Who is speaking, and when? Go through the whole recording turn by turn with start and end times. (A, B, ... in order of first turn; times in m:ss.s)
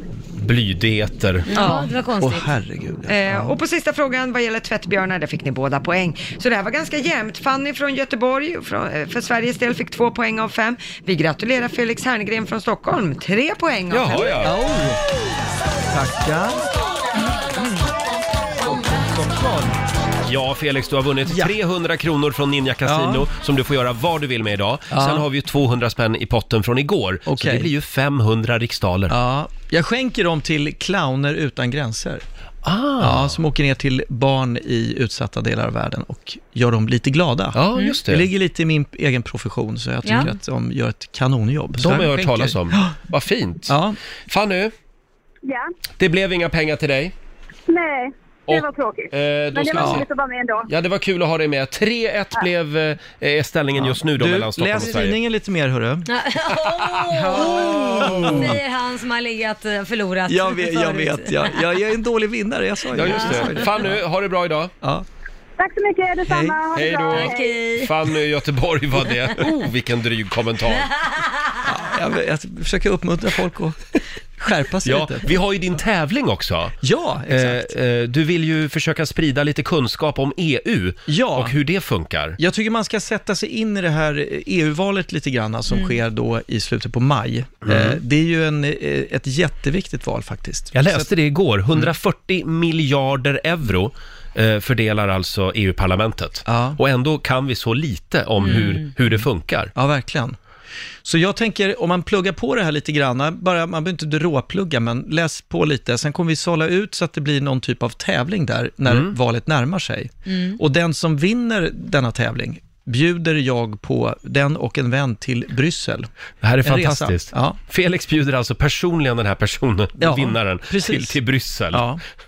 0:00.4-0:01.5 A
0:01.5-0:02.5 B
0:01.5-0:01.9 C
0:01.7-0:03.6 D
0:03.1-0:14.4 C
0:13.9-0:14.6 A
0:14.4-0:15.0 D
0:15.9-0:16.7 D
0:18.7-0:19.8 D
0:20.2-0:29.2 A
0:21.3-0:21.5 D
0:22.8-0:23.2 D
0:24.9-0:25.2 D
0:27.3-0:27.7 D
0:29.1-0:32.2 D
0:32.6-0:33.4 A
0:33.0-0:43.0 D
0:37.5-0:38.3 A
0:40.0-0:40.3 B
0:41.8-0:43.8 A
0:43.7-0:44.0 D
0:44.3-0:44.7 A
0:46.0-0:47.1 A
0:47.7-0:50.6 E
0:48.5-0:50.0 A
0:49.7-0:50.0 D
0:50.7-0:55.2 A
0:53.8-0:56.1 D
0:56.1-1:01.6 B
0:56.7-0:57.4 A
0:57.1-0:58.6 D
0:58.0-0:58.5 A
1:00.3-1:04.0 D
1:02.9-1:04.7 A
1:03.0-1:03.6 B
1:05.6-1:07.2 E
1:06.3-1:06.6 D
1:06.7-1:10.9 A
1:07.1-1:07.9 B
1:11.6-1:13.8 D
1:14.4-1:15.3 D
1:14.8-1:16.8 A
1:16.8-1:17.7 D
1:17.3-1:22.4 A
1:21.1-1:21.5 D
1:22.4-1:31.0 D
1:25.7-1:26.0 B
1:27.6-1:28.0 A
1:30.7-1:39.7 A
1:36.4-1:36.8 D
1:38.4-1:38.8 B
1:39.7-1:40.4 D
1:41.0-1:56.1 D
1:48.9-1:49.1 A
1:50.3-1:50.6 B
1:56.4-2:01.9 A
1:56.6-1:57.6 D
2:00.0-2:01.2 D
2:01.7-2:02.0 D